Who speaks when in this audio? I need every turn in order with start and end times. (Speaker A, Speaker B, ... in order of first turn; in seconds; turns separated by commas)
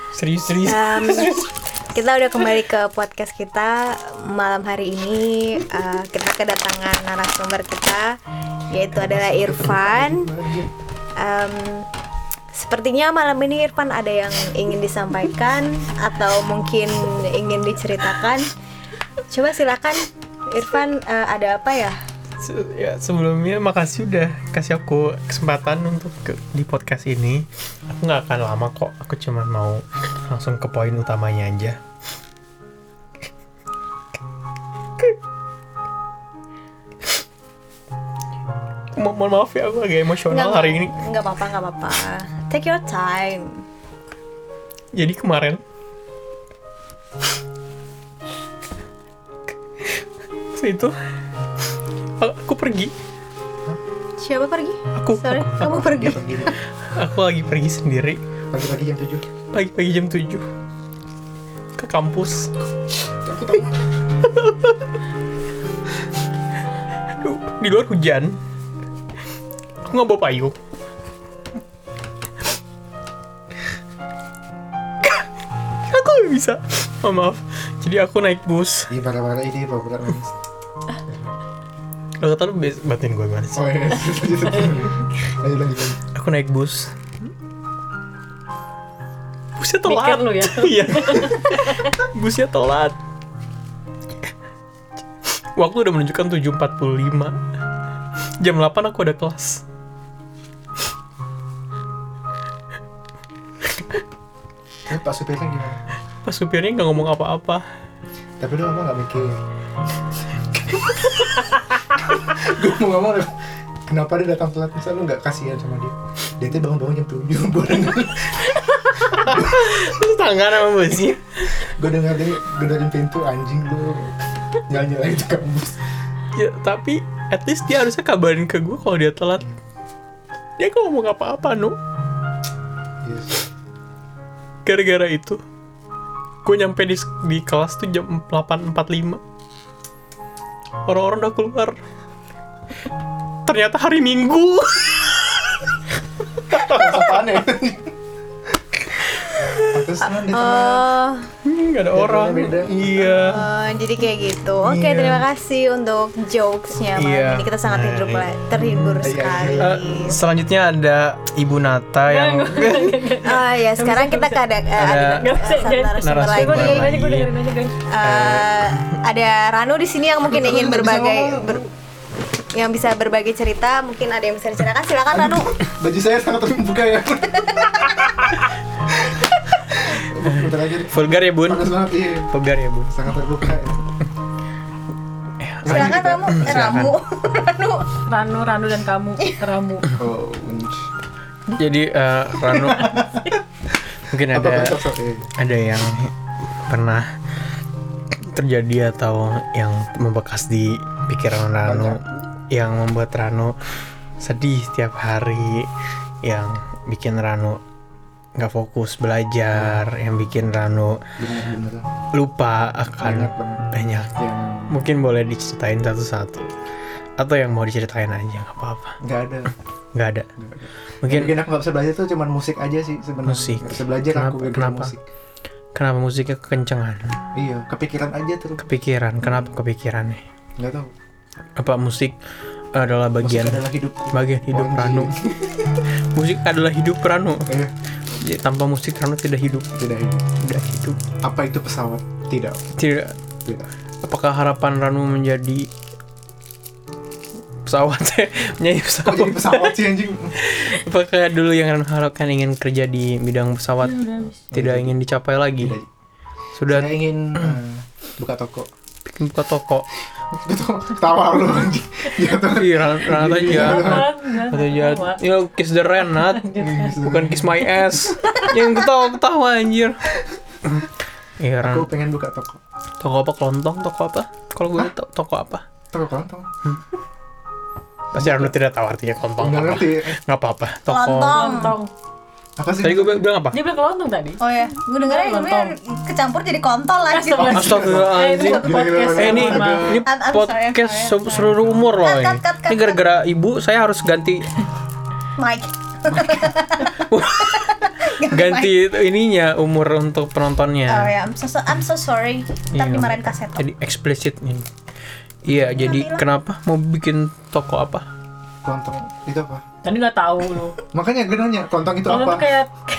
Speaker A: 0.1-1.5, Speaker B: 0.7-8.2, Speaker B: 8.7-10.3, Speaker C: 8.9-10.7, Speaker B: 11.2-11.9, Speaker B: 12.5-18.5, Speaker B: 19.3-22.0, Speaker A: 22.4-31.8, Speaker A: 39.0-40.9, Speaker B: 40.3-43.6, Speaker A: 44.9-45.6, Speaker A: 49.8-51.0, Speaker A: 52.2-52.9, Speaker B: 54.2-56.5, Speaker A: 55.0-56.1, Speaker C: 55.9-56.5, Speaker A: 56.8-58.2, Speaker C: 58.5-59.3, Speaker A: 59.5-60.5, Speaker A: 61.8-62.5, Speaker C: 63.2-63.7, Speaker A: 64.3-64.8, Speaker A: 67.2-68.4, Speaker A: 69.9-70.5, Speaker A: 75.9-78.9, Speaker C: 78.9-80.3, Speaker C: 81.1-81.3, Speaker A: 82.2-83.8, Speaker C: 83.5-86.0, Speaker A: 86.1-86.9, Speaker A: 89.6-93.0, Speaker D: 89.8-91.9, Speaker A: 95.5-97.4, Speaker A: 98.4-99.6, Speaker C: 104.9-105.8, Speaker A: 106.2-107.7, Speaker C: 108.4-109.4, Speaker C: 110.7-111.1, Speaker C: 112.2-118.6, Speaker A: 118.7-121.7, Speaker C: 119.1-119.6, Speaker C: 121.8-124.2, Speaker C: 124.7-125.8, Speaker A: 126.4-129.4, Speaker A: 130.6-131.8, Speaker C: 133.0-133.4, Speaker A: 134.7-135.4, Speaker A: 136.4-139.2, Speaker A: 140.9-141.8, Speaker A: 143.5-145.7, Speaker A: 146.5-147.4, Speaker C: 146.5-147.9, Speaker A: 149.3-149.7, Speaker C: 149.7-150.9, Speaker B: 150.1-151.3, Speaker A: 151.4-153.4, Speaker C: 151.9-153.0, Speaker B: 153.0-160.2, Speaker C: 154.6-155.2, Speaker A: 157.0-163.1, Speaker C: 159.0-159.8, Speaker D: 162.1-167.8, Speaker B: 163.2-167.0, Speaker A: 164.8-165.3, Speaker A: 166.0-167.3, Speaker B: 167.9-171.7, Speaker A: 168.0-168.9, Speaker C: 170.2-171.7, Speaker B: 172.5-175.5, Speaker C: 175.1-178.3, Speaker C: 179.0-182.3, Speaker A: 180.3-182.9, Speaker C: 182.9-183.8, Speaker A: 185.4-186.9, Speaker C: 185.6-186.6, Speaker B: 185.7-187.9, Speaker D: 188.1-189.9, Speaker C: 190.0-190.9, Speaker A: 191.5-193.1, Speaker C: 192.5-193.3, Speaker A: 194.1-194.8, Speaker C: 194.3-195.3, Speaker A: 195.4-196.1, Speaker A: 196.7-197.1, Speaker A: 198.2-203.6, Speaker C: 201.7-202.0, Speaker A: 204.2-205.7, Speaker A: 206.2-207.6, Speaker A: 208.4-211.0, Speaker C: 209.5-209.8, Speaker C: 211.2-211.9, Speaker A: 212.1-214.2, Speaker C: 213.0-214.7, Speaker A: 214.7-216.5, Speaker A: 217.2-219.0, Speaker C: 219.0-219.5, Speaker A: 219.9-220.3, Speaker C: 220.4-225.0, Speaker A: 221.0-221.4, Speaker A: 223.3-224.9, Speaker A: 225.8-227.2, Speaker C: 227.3-228.6, Speaker A: 228.6-230.2, Speaker C: 230.6-230.9, Speaker A: 231.6-232.2, Speaker A: 232.7-235.1, Speaker C: 233.2-235.8, Speaker A: 236.1-237.6, Speaker C: 237.5-237.7, Speaker A: 238.2-239.7, Speaker C: 239.8-240.4, Speaker A: 240.4-241.0, Speaker C: 241.2-242.7, Speaker A: 242.8-243.2, Speaker C: 243.4-243.7, Speaker A: 244.0-245.7, Speaker A: 247.7-249.8, Speaker C: 249.0-250.4, Speaker A: 250.4-255.8, Speaker D: 253.8-254.4, Speaker C: 254.5-255.0, Speaker C: 255.6-255.9, Speaker A: 256.6-257.6, Speaker C: 256.7-258.7, Speaker A: 259.1-259.9, Speaker C: 260.3-264.2, Speaker A: 262.4-270.0, Speaker D: 263.4-265.2, Speaker D: 266.1-267.0, Speaker C: 266.6-268.4, Speaker A: 271.4-271.9, Speaker C: 271.6-272.6, Speaker A: 273.0-275.7, Speaker C: 275.9-276.5, Speaker C: 278.1-278.6, Speaker A: 278.1-281.5, Speaker C: 279.4-280.2, Speaker B: 280.9-281.8, Speaker D: 281.3-281.9, Speaker C: 282.6-283.3, Speaker A: 282.8-283.6, Speaker D: 283.5-284.4, Speaker B: 284.4-287.7, Speaker D: 285.0-285.7, Speaker D: 287.1-290.0, Speaker C: 287.4-290.1, Speaker A: 287.5-294.5, Speaker B: 290.0-293.0, Speaker B: 295.4-298.8, Speaker A: 296.9-301.1, Speaker B: 300.9-303.6, Speaker A: 302.7-304.6, Speaker A: 305.4-308.1, Speaker B: 305.8-306.2, Speaker C: 308.6-309.6, Speaker D: 309.8-310.8, Speaker C: 310.9-312.5, Speaker D: 312.1-312.8